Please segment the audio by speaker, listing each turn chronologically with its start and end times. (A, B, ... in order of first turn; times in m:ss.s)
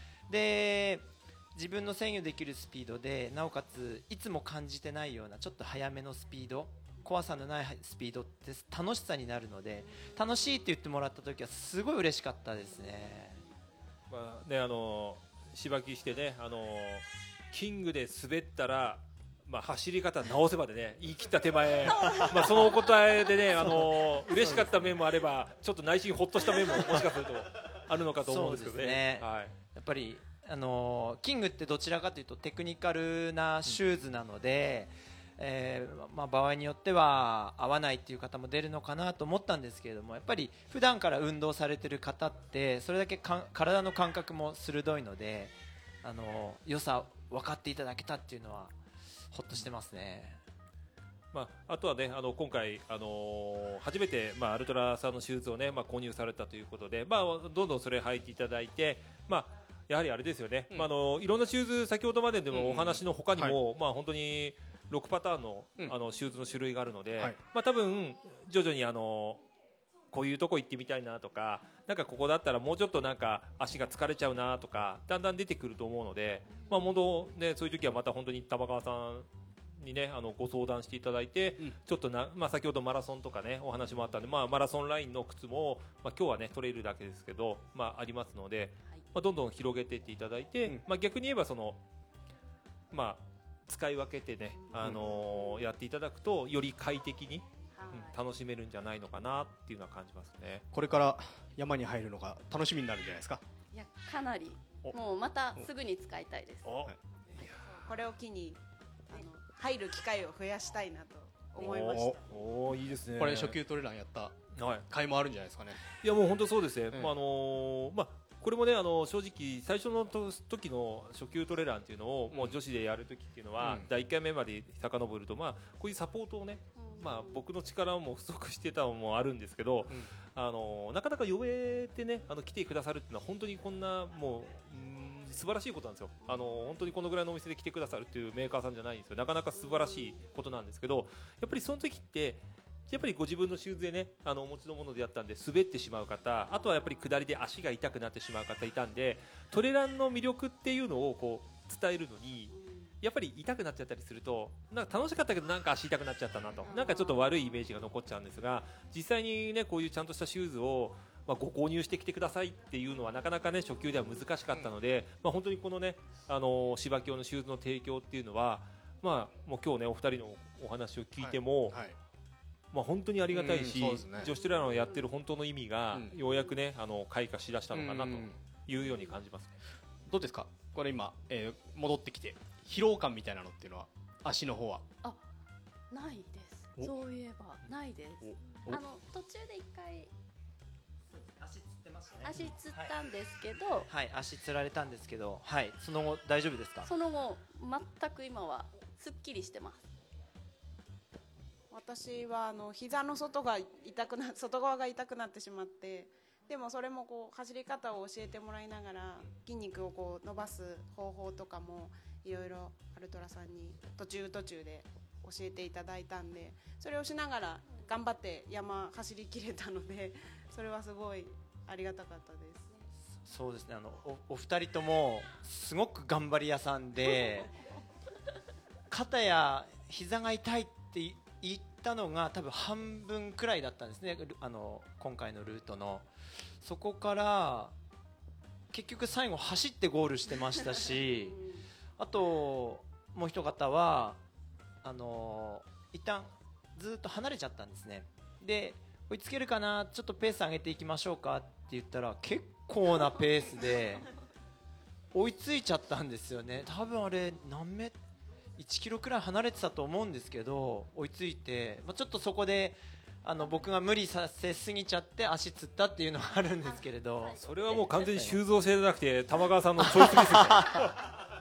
0:00.3-0:13.4 A
0:14.1-0:29.6 B
0:23.6-0:24.7 A
0:28.2-0:48.8 A
0:49.3-0:50.4 A
0:51.3-1:09.4 B
1:02.5-1:03.6 C
1:10.1-1:19.3 B
1:19.8-1:31.8 B
1:32.9-1:40.6 B
1:34.8-1:35.1 C
1:35.2-1:35.6 D
1:40.7-1:43.4 C
1:43.7-1:46.8 D
1:46.6-1:47.7 B
1:47.8-1:52.2 E
1:51.6-1:53.6 B
1:51.8-1:52.2 C
1:53.2-1:54.4 C
1:54.6-1:54.8 B
1:54.9-1:55.9 C
1:56.0-2:51.8 B
2:02.3-2:02.6 C
2:03.6-2:03.9 C
2:06.8-2:07.4 D
2:16.2-2:16.6 D
2:19.6-2:20.2 D
2:32.5-2:32.9 D
2:36.6-2:37.7 D
2:43.7-2:44.0 D
2:51.2-2:52.0 C
2:52.7-2:59.5 B
2:53.3-2:54.3 C
2:54.5-2:55.0 D
2:57.7-2:58.4 C
2:58.8-2:59.2 D
3:00.1-3:04.8 C
3:05.9-3:10.1 D
3:08.2-3:08.8 C
3:12.1-3:13.9 D
3:13.9-3:16.9 A
3:16.8-3:19.9 D
3:21.7-3:42.7 E
3:43.2-3:47.5 A
3:48.9-3:56.1 A
3:56.6-3:57.7 A
3:58.7-4:01.4 A
4:01.2-4:01.6 D
4:02.0-4:04.2 A
4:04.8-4:14.1 A
4:15.1-4:18.0 A
4:18.6-4:27.4 A
4:27.3-4:28.1 D
4:27.4-4:30.9 B
4:30.0-4:30.7 A